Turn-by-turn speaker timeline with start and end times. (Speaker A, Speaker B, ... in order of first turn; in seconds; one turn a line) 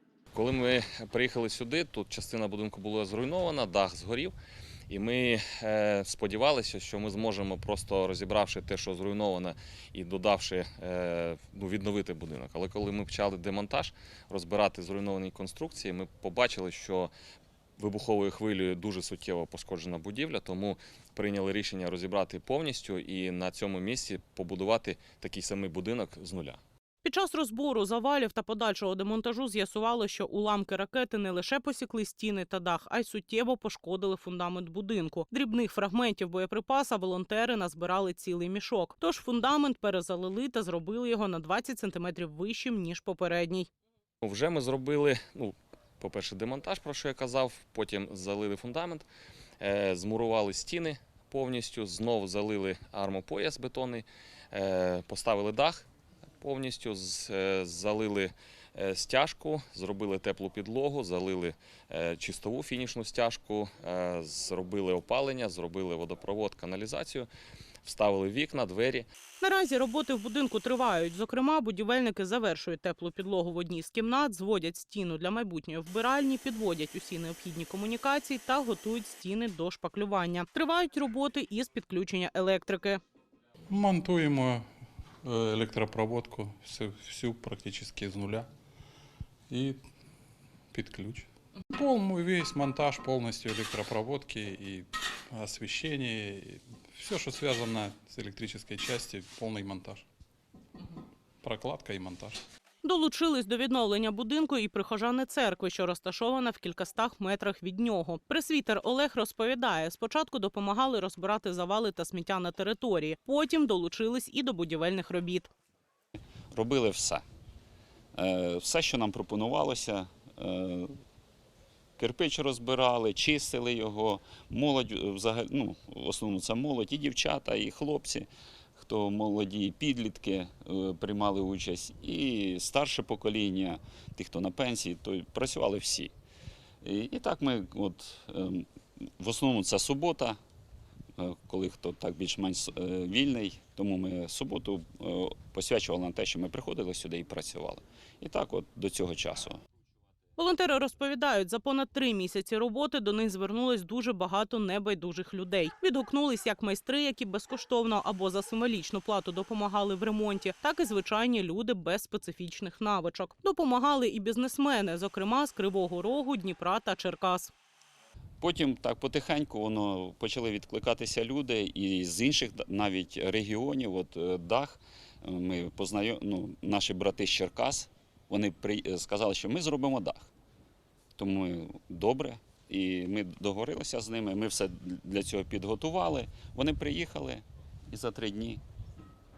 Speaker A: 0.3-4.3
Speaker A: 4.9-17.1
Speaker A: 17.8-26.6
Speaker B: 27.0-43.7
Speaker A: 44.2-49.1
Speaker A: 49.6-55.9
Speaker A: 56.4-67.3
Speaker A: 67.8-69.1
Speaker B: 69.4-83.0
Speaker C: 83.7-84.7
Speaker C: 85.2-88.5
Speaker C: 89.5-89.8
Speaker C: 90.7-100.0
Speaker C: 101.4-102.4
Speaker B: 102.8-115.5
Speaker D: 116.5-117.2
Speaker D: 118.2-120.9
Speaker D: 122.0-136.1
Speaker D: 136.8-140.4
Speaker D: 141.2-149.6
Speaker B: 150.4-167.5
Speaker D: 168.4-180.3
Speaker D: 181.2-188.6